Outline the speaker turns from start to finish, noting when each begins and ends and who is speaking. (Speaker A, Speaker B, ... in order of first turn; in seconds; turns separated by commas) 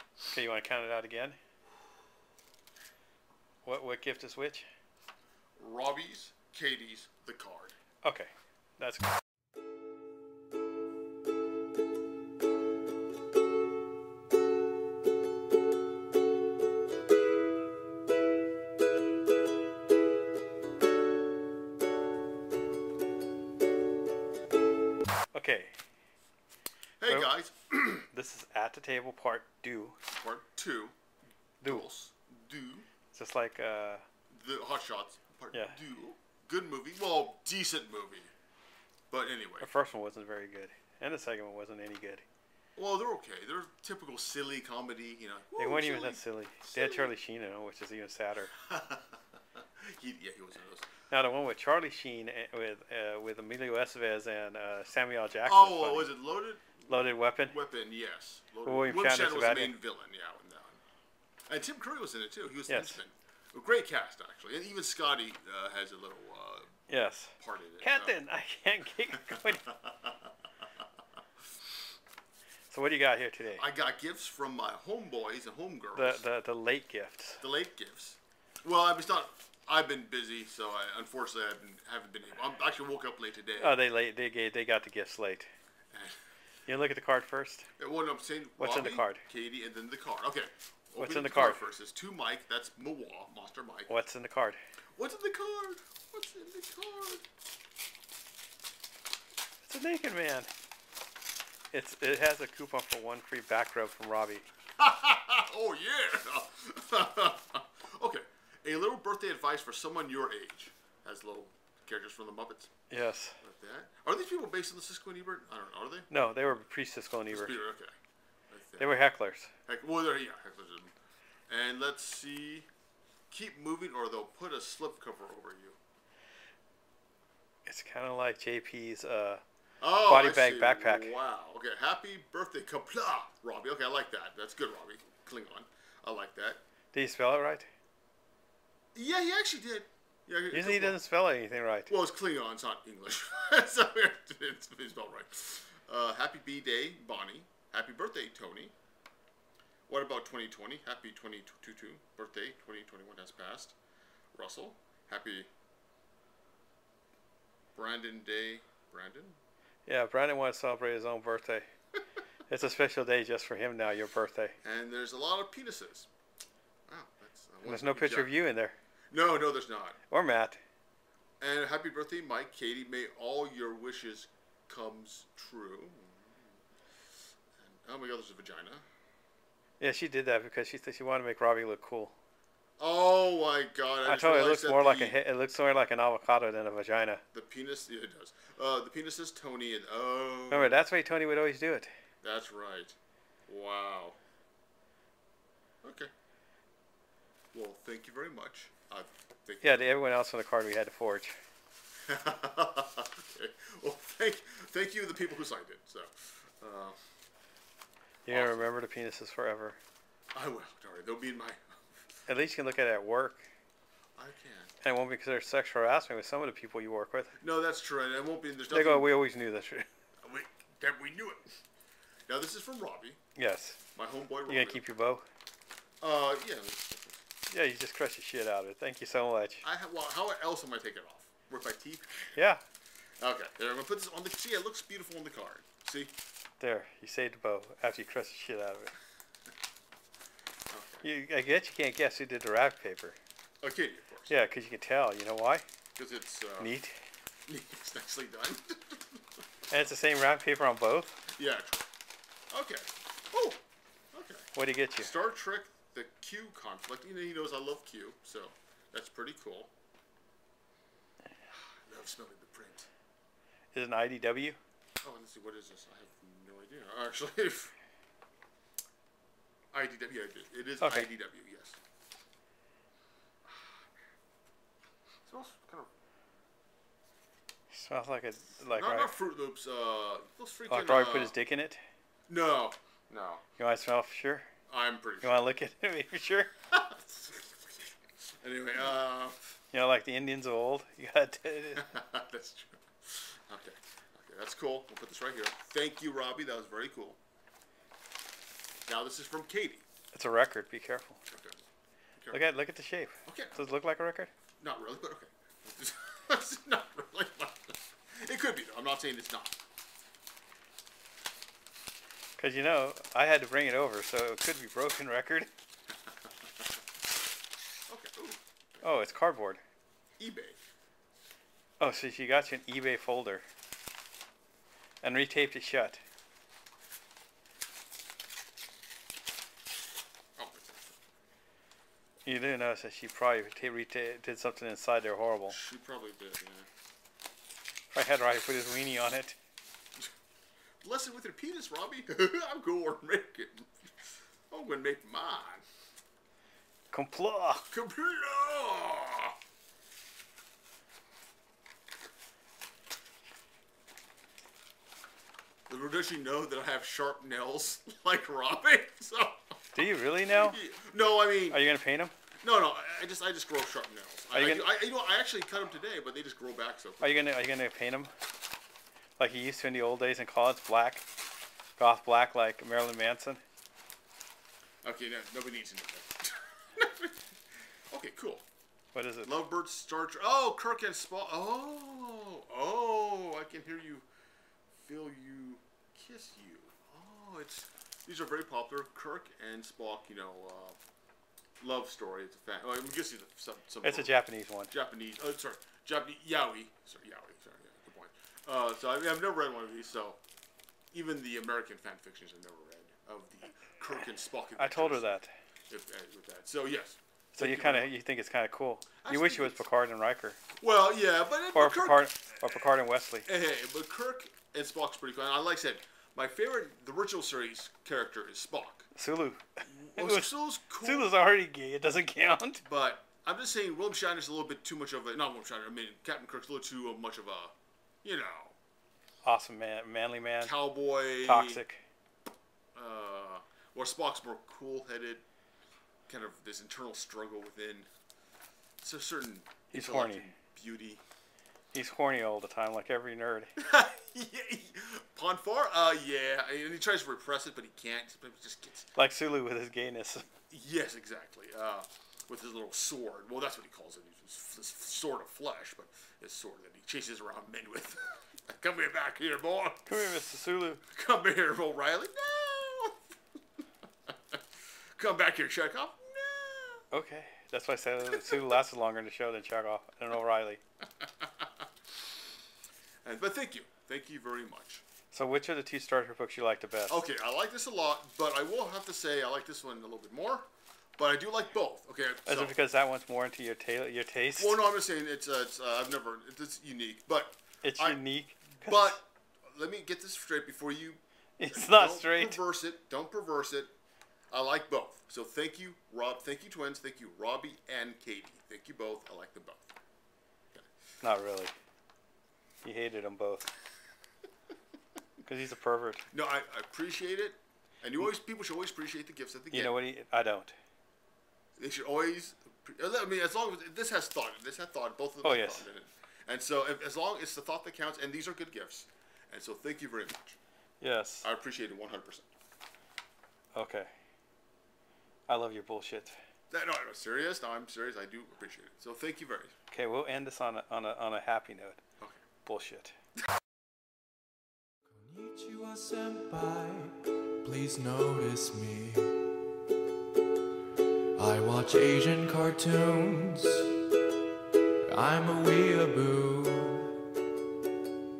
Speaker A: 0.3-1.4, Speaker A: 3.6-4.7, Speaker B: 5.6-7.7, Speaker A: 8.0-9.1, Speaker A: 25.3-25.7, Speaker B: 27.0-28.1, Speaker A: 28.1-30.0, Speaker B: 30.1-30.9, Speaker B: 31.6-32.9, Speaker A: 33.1-34.0, Speaker B: 34.3-38.3, Speaker B: 39.1-39.7, Speaker A: 39.6-42.2, Speaker B: 42.8-47.1, Speaker A: 45.6-48.5, Speaker B: 48.5-50.9, Speaker A: 51.1-56.1, Speaker B: 55.5-60.8, Speaker A: 56.9-57.5, Speaker A: 58.6-59.8, Speaker B: 61.5-66.7, Speaker A: 62.7-63.0, Speaker A: 66.9-69.6, Speaker B: 67.4-68.2, Speaker B: 69.3-70.1, Speaker A: 72.7-73.6, Speaker B: 73.5-76.2, Speaker A: 75.9-77.4, Speaker B: 77.4-83.8, Speaker A: 83.6-85.5, Speaker A: 86.7-87.7, Speaker B: 87.8-93.9, Speaker A: 88.6-89.2, Speaker A: 91.0-91.6, Speaker A: 93.9-94.6, Speaker B: 95.0-97.2, Speaker A: 99.6-100.5, Speaker A: 101.7-104.5, Speaker B: 104.8-112.7, Speaker A: 112.9-113.4, Speaker B: 113.4-116.1, Speaker A: 116.1-117.6, Speaker B: 117.3-117.9, Speaker B: 118.5-119.0, Speaker A: 118.8-119.5, Speaker B: 119.7-120.9, Speaker B: 121.5-122.7, Speaker B: 123.3-125.8, Speaker A: 127.7-129.4, Speaker B: 129.8-136.6, Speaker A: 130.1-131.1, Speaker A: 136.9-137.7, Speaker B: 138.9-141.0, Speaker A: 140.5-141.9, Speaker B: 141.9-148.7, Speaker B: 149.9-153.8, Speaker B: 154.3-155.5, Speaker B: 157.7-159.4, Speaker A: 159.9-161.7, Speaker A: 162.5-164.6, Speaker B: 164.6-166.1, Speaker B: 166.9-168.3, Speaker A: 167.6-168.7, Speaker B: 169.1-170.0, Speaker A: 170.1-170.6, Speaker B: 171.4-176.3, Speaker B: 177.6-178.8, Speaker A: 179.8-182.1, Speaker B: 182.8-185.2, Speaker A: 184.0-187.2, Speaker B: 187.3-190.8, Speaker A: 190.5-191.9, Speaker B: 192.2-192.9, Speaker B: 193.5-194.2, Speaker B: 195.8-196.1, Speaker B: 197.5-199.9, Speaker A: 199.6-201.3, Speaker B: 202.1-207.0, Speaker B: 208.3-208.7, Speaker A: 208.3-209.8, Speaker B: 210.3-212.2, Speaker A: 212.3-213.4, Speaker B: 214.2-214.7, Speaker A: 214.8-217.3, Speaker B: 217.4-219.2, Speaker A: 218.7-219.8, Speaker B: 220.2-221.5, Speaker B: 222.3-223.2, Speaker A: 223.3-223.8, Speaker B: 223.9-224.8, Speaker A: 224.5-225.2, Speaker B: 226.0-227.2, Speaker A: 227.5-229.6, Speaker B: 229.6-232.4, Speaker A: 232.3-232.6, Speaker B: 233.2-236.1, Speaker A: 236.6-238.9, Speaker B: 240.7-241.0, Speaker A: 241.0-243.2, Speaker B: 243.6-244.3, Speaker A: 244.3-245.6, Speaker B: 245.9-246.7, Speaker A: 246.6-246.9, Speaker B: 247.5-249.2, Speaker A: 249.7-251.2, Speaker B: 251.3-251.9, Speaker B: 252.5-253.6, Speaker B: 254.1-259.7, Speaker A: 254.5-255.1, Speaker B: 261.5-262.9, Speaker A: 263.7-264.6, Speaker B: 265.0-267.7, Speaker B: 269.7-271.8, Speaker A: 270.8-271.1, Speaker B: 275.2-275.9, Speaker A: 277.7-279.1, Speaker B: 278.7-281.3, Speaker A: 280.7-281.8, Speaker B: 282.3-283.4, Speaker A: 283.6-284.5, Speaker B: 284.7-285.4, Speaker A: 285.2-286.5, Speaker B: 286.7-289.4, Speaker A: 289.7-291.9, Speaker B: 291.8-297.2, Speaker B: 298.9-299.8, Speaker A: 300.1-301.2, Speaker B: 301.3-301.6, Speaker A: 302.3-304.3, Speaker B: 303.2-303.6, Speaker B: 304.6-309.6, Speaker A: 312.4-315.5, Speaker B: 317.9-319.1, Speaker A: 318.8-319.6, Speaker B: 320.2-320.6, Speaker A: 321.8-323.4, Speaker A: 325.0-326.0, Speaker B: 330.4-330.9, Speaker A: 332.2-335.6, Speaker B: 335.5-336.7, Speaker A: 337.9-339.4, Speaker B: 340.8-345.6, Speaker A: 346.9-347.7, Speaker B: 347.6-349.4, Speaker B: 355.7-359.4, Speaker A: 359.7-360.6, Speaker B: 360.2-361.6, Speaker A: 361.5-362.1, Speaker B: 362.4-367.2, Speaker A: 364.3-364.7, Speaker A: 367.0-368.1, Speaker A: 369.2-371.1, Speaker A: 371.8-373.4, Speaker B: 374.8-377.2, Speaker B: 377.9-378.4, Speaker A: 378.9-379.3, Speaker B: 379.2-384.1, Speaker B: 384.7-390.8, Speaker B: 391.6-394.1, Speaker A: 393.8-394.7, Speaker B: 394.7-400.2, Speaker B: 400.9-405.1, Speaker A: 404.6-405.3, Speaker B: 405.7-407.9, Speaker A: 407.4-410.4, Speaker B: 409.0-409.6, Speaker B: 410.6-412.1, Speaker A: 411.5-413.2, Speaker B: 413.2-418.9, Speaker A: 418.9-420.3, Speaker B: 419.7-421.1, Speaker A: 420.8-422.6, Speaker B: 422.6-427.5, Speaker B: 428.0-428.6, Speaker A: 429.2-430.5, Speaker B: 430.4-431.6, Speaker A: 431.2-431.8, Speaker B: 432.8-435.2, Speaker B: 436.1-437.9, Speaker B: 438.8-441.0, Speaker A: 439.7-440.3, Speaker A: 441.7-443.5, Speaker B: 443.6-448.9, Speaker A: 448.9-450.2, Speaker B: 450.5-459.9, Speaker A: 459.9-460.8, Speaker B: 460.9-463.0, Speaker B: 464.9-466.8, Speaker A: 466.9-470.6, Speaker B: 471.0-471.5, Speaker B: 473.0-474.8, Speaker A: 475.1-476.9, Speaker B: 476.9-480.5, Speaker B: 481.0-482.6, Speaker A: 482.2-484.6, Speaker B: 484.4-488.0, Speaker A: 487.6-489.0, Speaker B: 488.6-491.0, Speaker A: 491.4-492.4, Speaker B: 491.5-493.7, Speaker B: 494.3-499.7, Speaker A: 501.0-501.5, Speaker A: 502.6-503.5, Speaker A: 505.2-506.0, Speaker B: 506.1-509.8, Speaker A: 509.5-510.5, Speaker B: 511.6-520.4, Speaker A: 515.2-515.7, Speaker A: 520.8-521.2, Speaker B: 521.2-522.2, Speaker A: 523.5-523.9, Speaker A: 525.3-526.1, Speaker B: 526.5-529.5, Speaker A: 529.7-531.8, Speaker A: 532.4-532.9, Speaker C: 534.9-539.3, Speaker C: 541.2-543.8, Speaker C: 544.9-547.0